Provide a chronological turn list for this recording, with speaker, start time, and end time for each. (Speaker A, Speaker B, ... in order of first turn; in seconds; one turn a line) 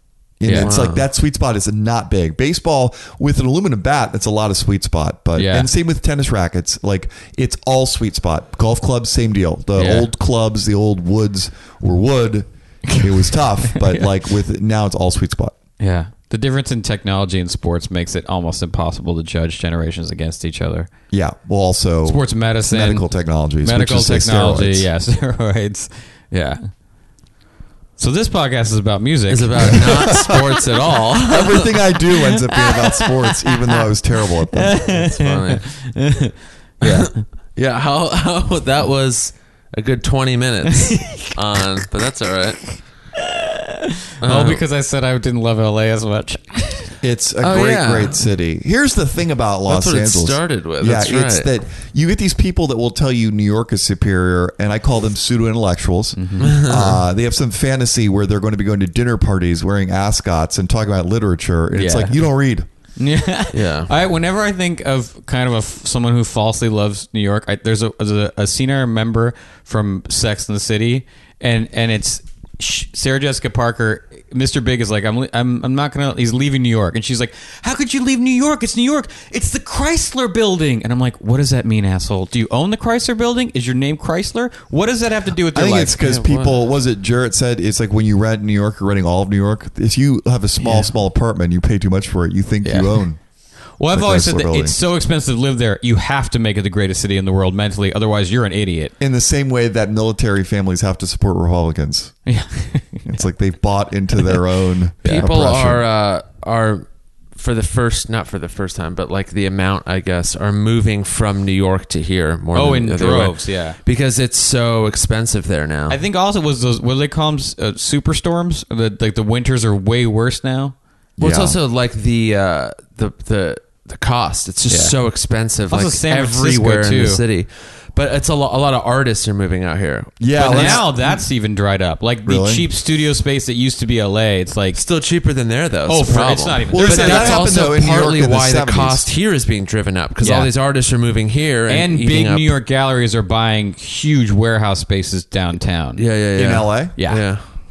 Speaker A: 0.4-15.5
Speaker B: 0.4-0.7
Speaker C: 0.5-1.1
Speaker B: 5.3-5.7
Speaker B: 9.8-10.1
Speaker B: 13.7-14.1
Speaker B: 15.8-20.9
Speaker A: 21.1-24.9
Speaker B: 22.1-23.1
Speaker B: 23.6-26.6
Speaker B: 28.0-30.1
Speaker C: 29.3-31.7
Speaker A: 29.7-30.5
Speaker A: 31.2-35.0
Speaker B: 32.2-33.9
Speaker B: 34.5-37.2
Speaker C: 34.9-35.6
Speaker C: 36.8-42.6
Speaker B: 40.9-41.3
Speaker B: 43.2-46.9
Speaker C: 44.2-44.6
Speaker A: 47.0-62.6
Speaker C: 47.4-48.2
Speaker C: 49.7-51.5
Speaker B: 56.2-56.5
Speaker C: 56.4-57.0
Speaker B: 61.7-62.1
Speaker B: 63.0-86.0
Speaker C: 63.5-63.9
Speaker A: 85.5-93.2
Speaker C: 86.0-86.5
Speaker B: 93.8-98.9
Speaker A: 93.9-94.8
Speaker A: 99.0-102.1
Speaker B: 102.3-103.1
Speaker A: 103.0-105.8
Speaker C: 105.0-116.0
Speaker B: 112.5-113.8
Speaker B: 115.9-120.7
Speaker A: 121.2-121.5
Speaker C: 121.2-130.8
Speaker B: 124.7-124.9
Speaker B: 125.7-127.2
Speaker A: 130.2-131.2
Speaker B: 130.3-134.8
Speaker A: 132.2-132.7
Speaker C: 134.7-142.5
Speaker B: 135.8-137.6
Speaker A: 136.7-139.1
Speaker B: 140.2-140.5
Speaker B: 141.7-146.0
Speaker C: 146.0-147.4
Speaker A: 146.3-146.9
Speaker B: 146.9-147.3